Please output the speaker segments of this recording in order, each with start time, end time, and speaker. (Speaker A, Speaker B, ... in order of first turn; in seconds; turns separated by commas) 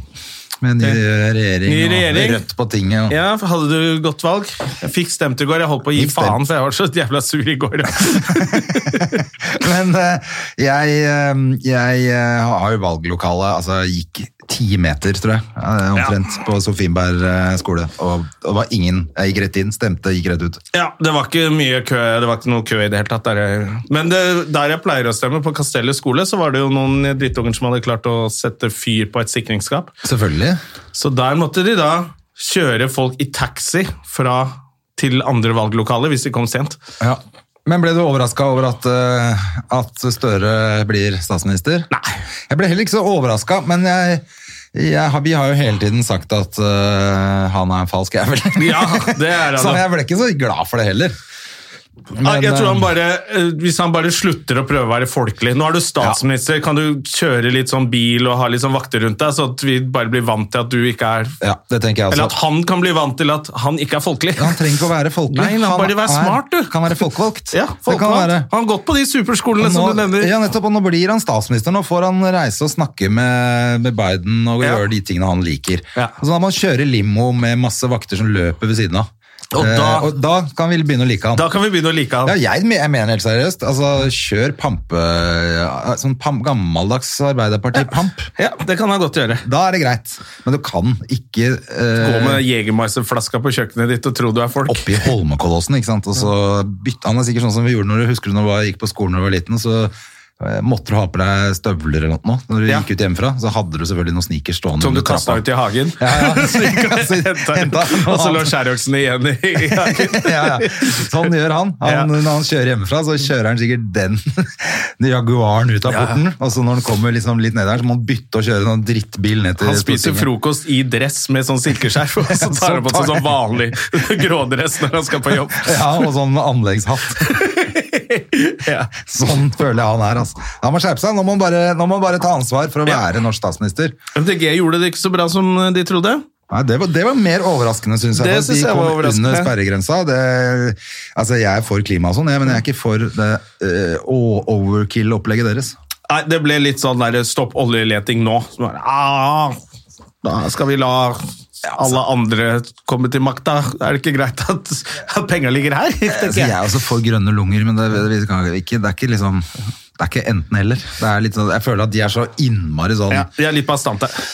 Speaker A: 0.6-3.2, Speaker B: 1.6-2.4, Speaker B: 3.1-9.2, Speaker A: 5.9-6.4, Speaker A: 8.0-20.6, Speaker B: 20.7-29.9, Speaker A: 30.0-30.6, Speaker B: 30.9-36.8, Speaker A: 37.0-41.9, Speaker A: 42.5-51.1, Speaker B: 48.5-49.9, Speaker A: 52.1-52.9, Speaker B: 52.2-61.4, Speaker A: 61.4-62.3, Speaker B: 62.1-64.6, Speaker A: 64.3-68.5, Speaker B: 65.3-67.0, Speaker B: 67.5-70.3, Speaker A: 69.6-81.5, Speaker B: 79.5-80.1, Speaker B: 81.3-82.3, Speaker A: 82.2-88.3, Speaker B: 87.7-89.4, Speaker A: 89.4-92.4, Speaker B: 92.0-95.0, Speaker A: 94.7-105.4, Speaker B: 104.8-111.2, Speaker A: 106.0-108.5, Speaker A: 109.6-120.3, Speaker B: 111.8-112.1, Speaker B: 115.9-116.2, Speaker B: 119.6-126.1, Speaker A: 122.3-123.3, Speaker A: 125.2-127.5, Speaker B: 127.2-128.9, Speaker A: 128.9-134.0, Speaker B: 134.1-136.2, Speaker A: 136.5-145.7, Speaker B: 138.1-139.5, Speaker B: 146.1-149.6, Speaker B: 150.2-156.6, Speaker A: 156.1-163.3, Speaker B: 163.1-164.2